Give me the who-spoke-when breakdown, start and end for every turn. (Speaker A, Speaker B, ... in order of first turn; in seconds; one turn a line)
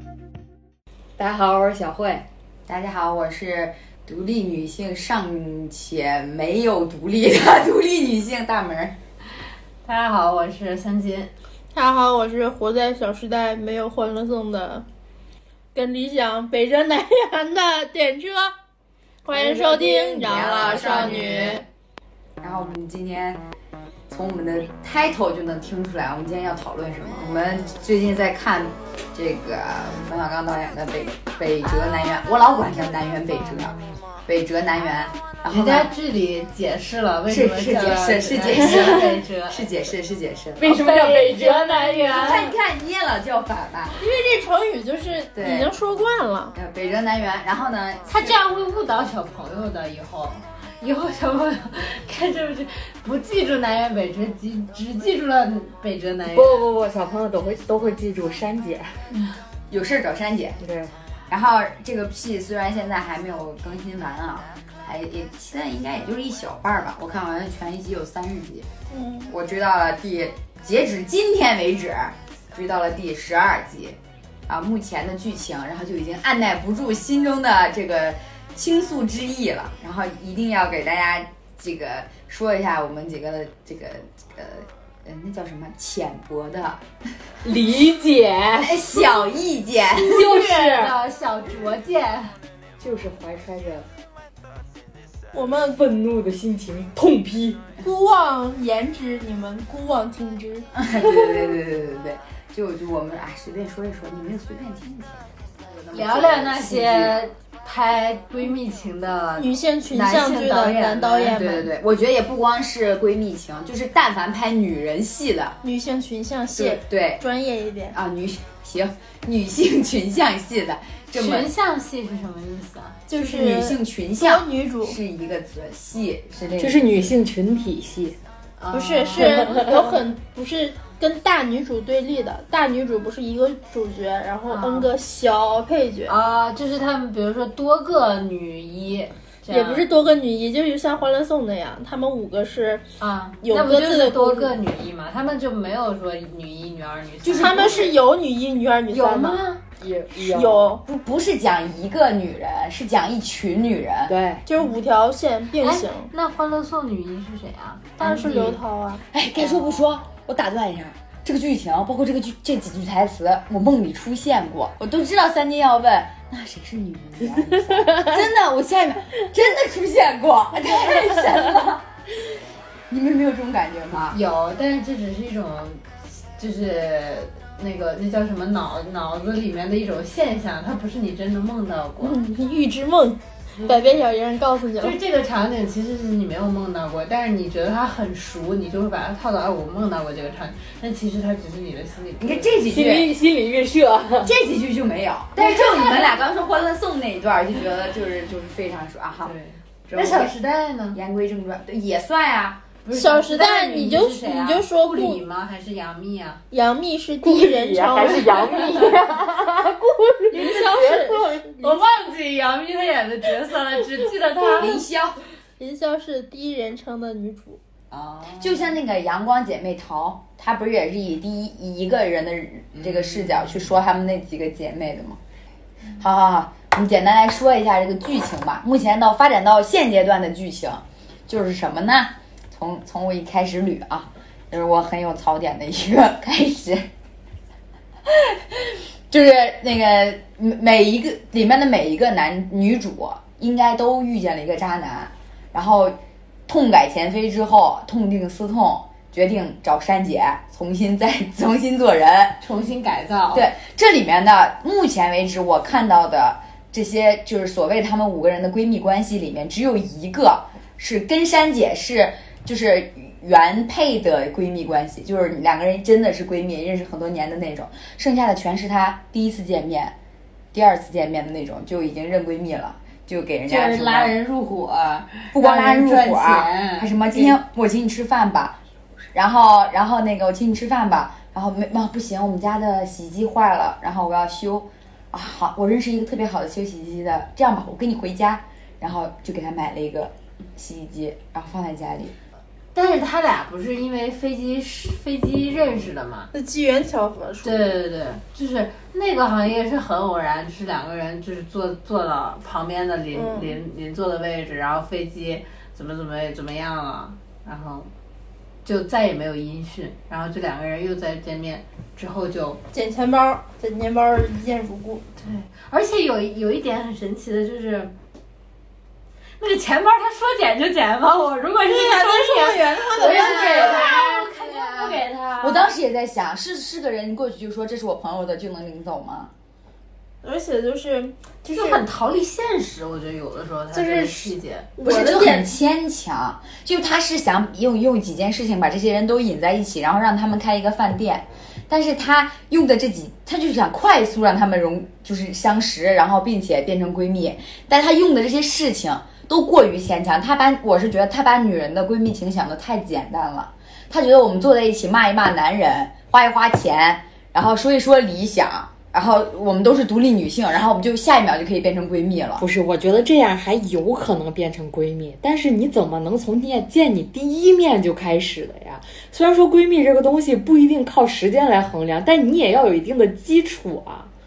Speaker A: 1.2-2.2
Speaker B: 2.7-8.9
Speaker C: 9.8-11.3
Speaker D: 11.7-14.8
Speaker D: 15.8-18.5
Speaker D: 19.2-21.6
Speaker A: 19.3-21.4
Speaker B: 20.1-21.6
Speaker B: 22.4-23.4
Speaker B: 24.1-35.9
Speaker C: 35.5-39.9
Speaker B: 37.3-40.7
Speaker C: 40.6-42.5
Speaker A: 40.6-42.0
Speaker B: 42.1-44.0
Speaker D: 44.0-46.5
Speaker B: 45.3-45.7
Speaker B: 46.5-48.4
Speaker C: 48.1-56.7
Speaker A: 56.3-58.9
Speaker B: 59.7-60.6
Speaker A: 60.6-60.9
Speaker B: 61.3-68.7
Speaker D: 68.9-69.3
Speaker B: 69.3-86.8
Speaker A: 87.4-89.0
Speaker B: 88.6-90.4
Speaker A: 90.1-91.0
Speaker C: 90.1-92.3
Speaker A: 92.8-93.9
Speaker D: 95.3-95.8
Speaker A: 95.5-97.6
Speaker D: 97.8-100.7
Speaker B: 100.7-107.2
Speaker C: 105.9-111.3
Speaker D: 109.4-111.7
Speaker B: 109.9-110.5
Speaker B: 111.2-115.6
Speaker D: 115.6-118.0
Speaker B: 116.5-117.2
Speaker B: 117.9-121.5
Speaker C: 121.1-123.1
Speaker D: 123.1-125.0
Speaker B: 123.1-127.2
Speaker A: 126.6-128.2
Speaker C: 128.6-129.8
Speaker D: 128.7-136.1
Speaker A: 129.2-129.8
Speaker C: 134.5-134.9
Speaker C: 136.1-139.9
Speaker D: 139.5-142.8
Speaker C: 143.0-147.9
Speaker D: 143.4-144.6
Speaker B: 147.2-147.8
Speaker D: 147.4-149.4
Speaker C: 148.9-149.6
Speaker A: 149.8-150.7
Speaker D: 150.2-150.8
Speaker B: 150.8-154.1
Speaker A: 154.1-154.4
Speaker D: 154.4-156.1
Speaker C: 155.6-158.6
Speaker D: 158.0-159.0
Speaker B: 159.1-171.9
Speaker C: 159.3-159.9
Speaker B: 172.9-174.2
Speaker C: 174.1-175.8
Speaker C: 176.4-182.2
Speaker D: 182.0-185.0
Speaker C: 183.6-184.0
Speaker C: 184.8-192.6
Speaker B: 192.2-193.1
Speaker A: 192.7-194.3
Speaker B: 194.2-199.3
Speaker C: 195.4-196.3
Speaker C: 199.2-201.0
Speaker B: 199.9-200.3
Speaker B: 200.9-202.6
Speaker C: 202.8-206.4
Speaker D: 202.9-205.2
Speaker D: 206.5-211.8
Speaker A: 207.2-211.4
Speaker C: 211.6-214.8
Speaker B: 214.6-215.2
Speaker D: 215.6-217.6
Speaker C: 217.9-218.8
Speaker B: 218.4-225.2
Speaker C: 222.7-223.7
Speaker B: 226.0-236.8
Speaker B: 238.1-245.9
Speaker B: 246.5-252.4
Speaker C: 252.4-253.4
Speaker B: 253.3-269.9
Speaker B: 270.5-274.1
Speaker C: 273.5-277.4
Speaker B: 275.3-278.6
Speaker B: 279.1-292.1
Speaker C: 292.8-296.3
Speaker D: 296.3-297.8
Speaker C: 297.4-307.9
Speaker D: 303.1-303.6
Speaker C: 308.6-312.6
Speaker D: 312.7-315.0
Speaker C: 315.2-317.9
Speaker C: 319.4-325.7
Speaker D: 321.7-323.9
Speaker B: 322.9-329.3
Speaker D: 330.2-331.8
Speaker C: 331.5-334.7
Speaker D: 333.7-335.5
Speaker B: 334.8-362.5
Speaker A: 362.4-374.1